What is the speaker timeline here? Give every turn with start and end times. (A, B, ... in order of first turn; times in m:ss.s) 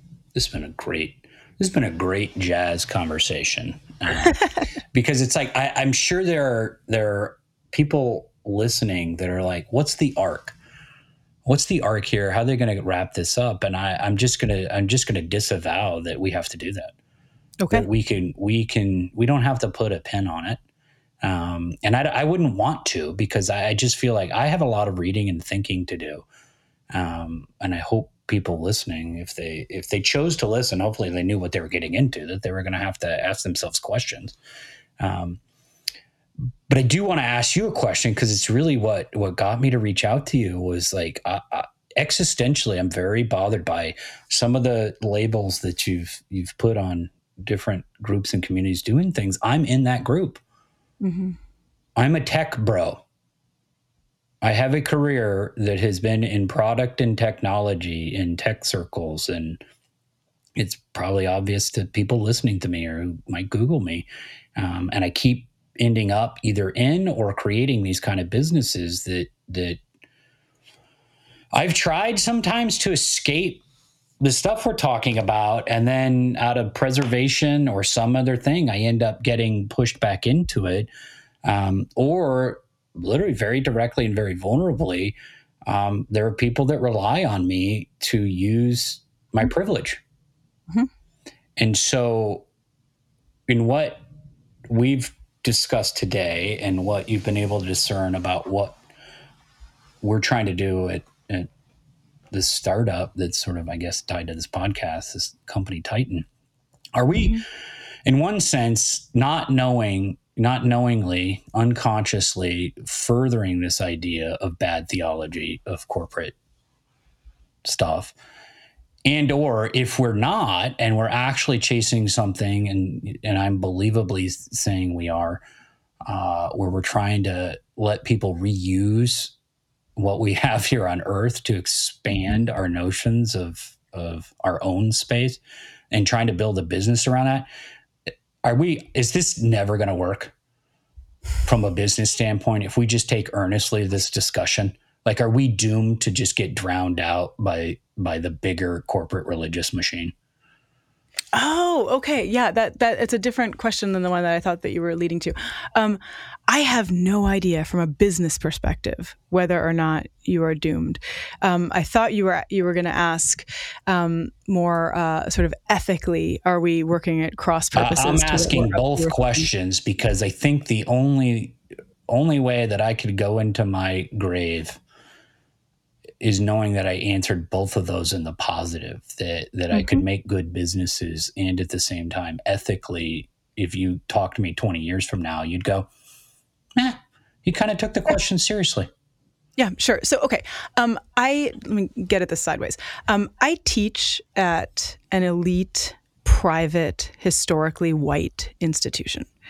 0:00.3-0:10.6 A
0:11.4-0:16.9 A
0:17.6-0:17.9 B
0:17.7-0:20.6 A
0:21.2-0:26.2 A
0:26.9-0:34.4 A
0:35.0-0:35.4 A
0:36.7-0:50.4 A
0:51.0-0:51.4 B
0:52.0-0:53.0 A
0:54.4-0:59.6 A
1:00.6-1:09.8 A
1:11.5-1:13.6 A
1:14.2-1:20.9 A
1:21.4-1:30.0 A
1:31.6-1:32.5 A
1:33.5-1:34.0 A
1:34.7-1:38.8 A
1:40.0-1:41.5 A
1:42.3-1:46.3 A
1:47.0-1:47.5 A
1:48.1-1:56.4 A
1:57.6-1:58.2 A
1:59.0-2:05.4 A
2:06.0-2:09.3 A
2:10.0-2:17.5 A
2:18.4-2:20.3 A
2:21.4-2:30.1 A
2:31.3-2:49.5 B
2:47.8-2:54.8 A
2:56.2-3:05.9 A
2:59.7-3:00.0 B
3:06.8-3:08.9 A
3:09.6-3:19.3 B